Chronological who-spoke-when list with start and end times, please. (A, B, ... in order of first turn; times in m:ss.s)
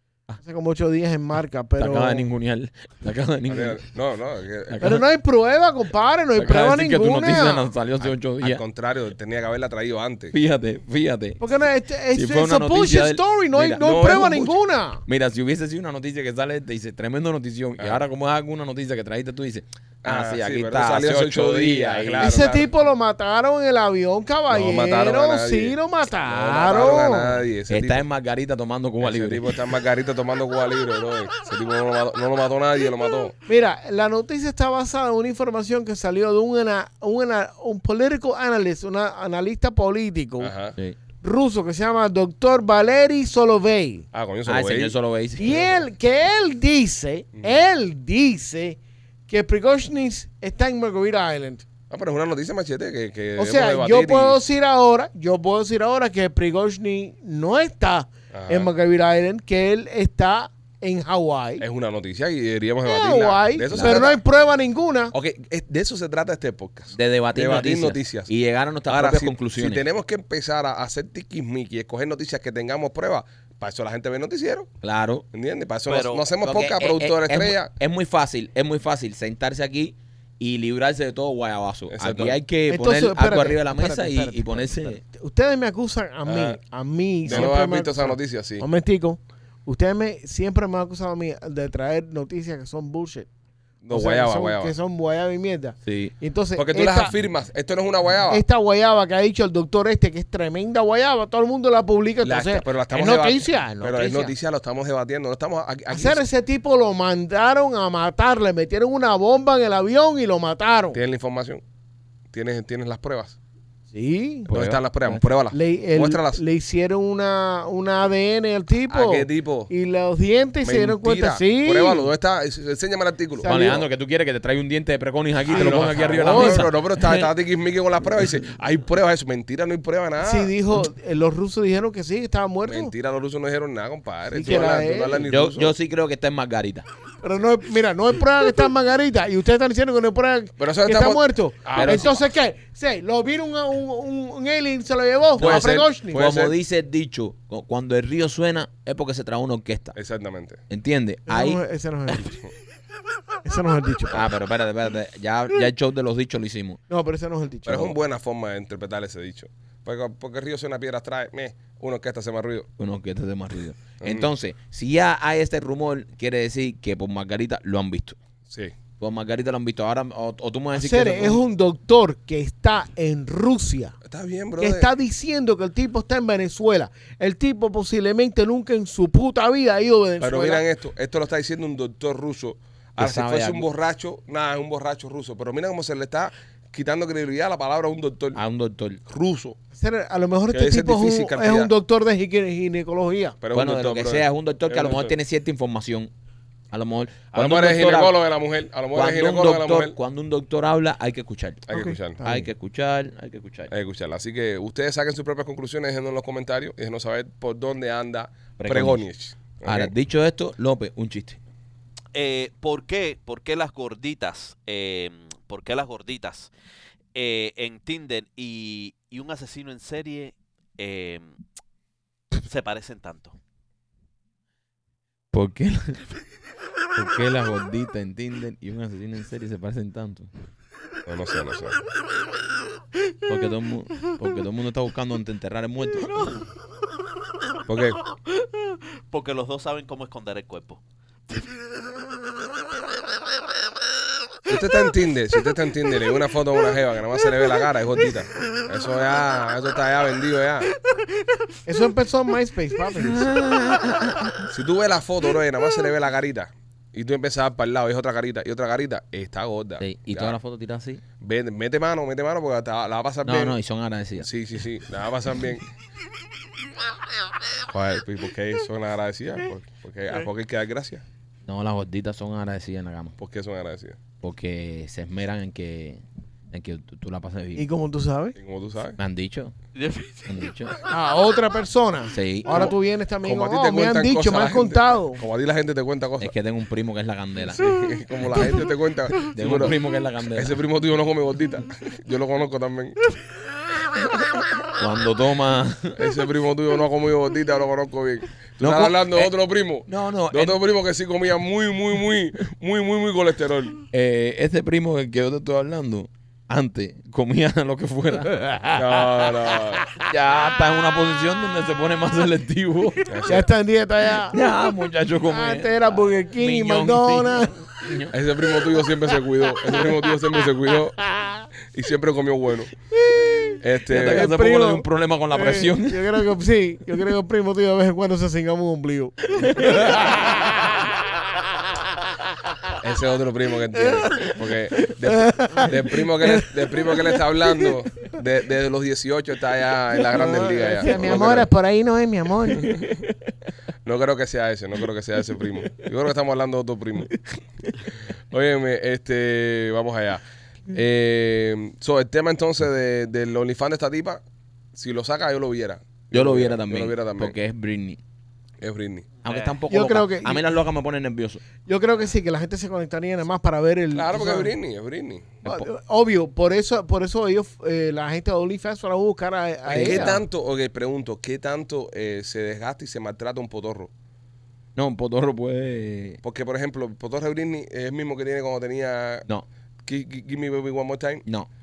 0:00.4-0:02.2 A
0:01.8-0:03.8 B
0:03.5-0:04.8 C
0:04.7-0:05.0 B
0:04.8-0:07.7 A
0:06.4-0:08.6 B
0:08.0-0:10.3 C
0:10.3-0:11.4 B
0:11.4-0:15.0 A
0:12.1-0:14.4 B
0:13.8-0:14.6 C
0:15.0-0:22.5 B
0:17.8-0:18.0 C
0:20.0-0:22.7 C
0:22.2-0:27.4 A
0:24.5-0:28.0 C
0:27.7-0:29.5 B
0:29.0-0:33.4 C
0:33.5-0:40.5 A
0:40.4-0:40.8 C
0:41.2-0:44.1 A
0:44.1-0:45.0 C
0:44.4-0:45.8 B
0:45.4-0:48.8 A
0:47.4-0:47.6 C
0:49.3-0:51.6 A
0:51.9-0:54.4 C
0:53.4-1:01.6 A
0:58.3-0:58.7 C
1:01.6-1:04.2 C
1:02.8-1:05.1 A
1:03.7-1:04.1 B
1:05.1-1:08.3 C
1:06.9-1:09.8 B
1:08.9-1:14.7 C
1:14.8-1:15.2 B
1:15.3-1:17.7 C
1:15.9-1:16.2 D
1:16.4-1:25.0 B
1:21.9-1:22.4 C
1:22.7-1:33.3 A
1:26.2-1:26.6 C
1:27.2-1:28.6 C
1:33.8-1:34.7 C
1:33.9-1:37.1 A
1:35.9-1:36.1 B
1:36.6-1:38.4 C
1:38.2-1:44.3 A
1:42.2-1:46.2 C
1:45.9-1:51.0 A
1:50.9-1:51.6 C
1:52.3-1:53.4 C
1:53.9-1:54.5 A
1:54.5-1:56.4 C
1:54.5-1:55.2 B
1:55.5-2:02.1 A
1:58.9-1:59.7 C
2:00.6-2:03.8 C
2:03.4-2:03.8 A
2:03.4-2:07.3 B
2:05.4-2:10.5 C
2:05.5-2:06.7 A
2:10.2-2:12.9 A
2:12.6-2:15.7 C
2:14.3-2:15.3 A
2:14.4-2:16.8 B
2:17.2-2:26.5 A
2:20.6-2:22.2 C
2:21.7-2:22.1 B
2:25.4-2:26.5 C
2:25.4-2:29.9 B
2:29.9-2:30.6 C
2:30.7-2:32.2 B
2:31.3-2:32.4 A
2:33.4-2:34.3 A
2:34.1-2:36.8 B
2:36.9-2:38.0 A
2:37.6-2:42.7 C
2:42.8-2:48.2 B
2:44.0-2:44.3 C
2:48.5-2:48.7 C
2:49.0-2:51.4 B
2:50.7-2:54.0 A
2:54.0-2:54.9 C
2:54.6-3:00.6 A
3:00.2-3:08.4 C
3:03.0-3:03.6 B
3:08.4-3:09.0 B
3:09.1-3:09.6 C
3:09.7-3:13.4 A
3:10.5-3:11.7 C
3:13.4-3:15.1 C
3:13.5-3:16.1 B
3:16.7-3:18.1 B
3:17.3-3:19.9 C
3:18.9-3:21.6 B
3:21.7-3:22.2 C
3:21.7-3:22.5 A
3:22.2-3:23.7 B
3:23.7-3:29.9 C
3:28.6-3:29.0 B
3:29.6-3:31.4 B
3:32.1-3:36.5 D
3:37.1-3:41.3 D
3:42.4-3:43.4 D
3:45.3-3:46.0 B
3:47.0-3:50.3 B
3:51.0-3:51.8 C
3:53.3-3:56.4 B
3:57.7-3:58.0 C
3:58.4-4:01.5 D
4:04.5-4:10.7 C
4:11.6-4:13.4 A
4:12.9-4:14.5 B
4:14.5-4:20.4 C
4:19.8-4:21.0 B
4:21.2-4:23.6 C
4:23.2-4:24.3 B
4:24.2-4:25.7 C
4:27.7-4:31.0 C
4:31.4-4:33.2 B
4:33.2-4:34.0 C
4:34.2-4:37.6 B
4:37.6-4:38.4 A
4:38.4-4:39.0 C
4:39.0-4:39.5 B
4:39.7-4:40.9 D
4:40.3-4:40.8 B
4:40.9-4:45.2 A
4:42.1-4:42.7 B
4:42.5-4:46.3 C
4:46.2-4:47.6 B
4:47.5-4:49.8 C
4:49.1-4:50.6 B
4:50.4-4:53.0 C
4:54.8-4:56.0 B
4:56.0-5:03.8 C
4:58.6-4:59.3 B
4:59.9-5:00.6 B
5:03.9-5:08.8 B
5:08.7-5:09.9 C
5:09.9-5:13.3 B
5:13.0-5:13.5 C
5:13.2-5:14.4 A
5:14.2-5:18.1 B
5:15.2-5:17.7 A
5:18.1-5:21.0 C
5:19.7-5:20.2 A
5:21.0-5:21.5 A
5:21.7-5:22.7 C
5:23.0-5:30.9 A
5:23.6-5:24.4 C
5:23.9-5:26.3 B
5:29.4-5:30.4 B
5:32.8-5:41.5 C
5:33.9-5:34.3 A
5:35.0-5:37.0 A
5:40.1-5:42.9 A
5:40.8-5:41.4 B
5:42.6-5:42.9 B
5:43.8-5:47.2 C
5:48.0-5:54.2 C
5:54.7-5:57.4 C
5:56.1-5:58.0 B
5:58.6-5:59.0 C
5:59.2-5:59.6 D
5:59.2-6:01.4 B
5:59.7-6:00.4 A
6:01.6-6:04.5 A
6:03.9-6:05.4 C
6:05.4-6:05.7 B
6:05.4-6:10.1 A
6:09.6-6:13.9 C
6:09.7-6:10.2 B
6:14.8-6:16.2 B
6:16.2-6:19.2 C
6:19.8-6:21.2 C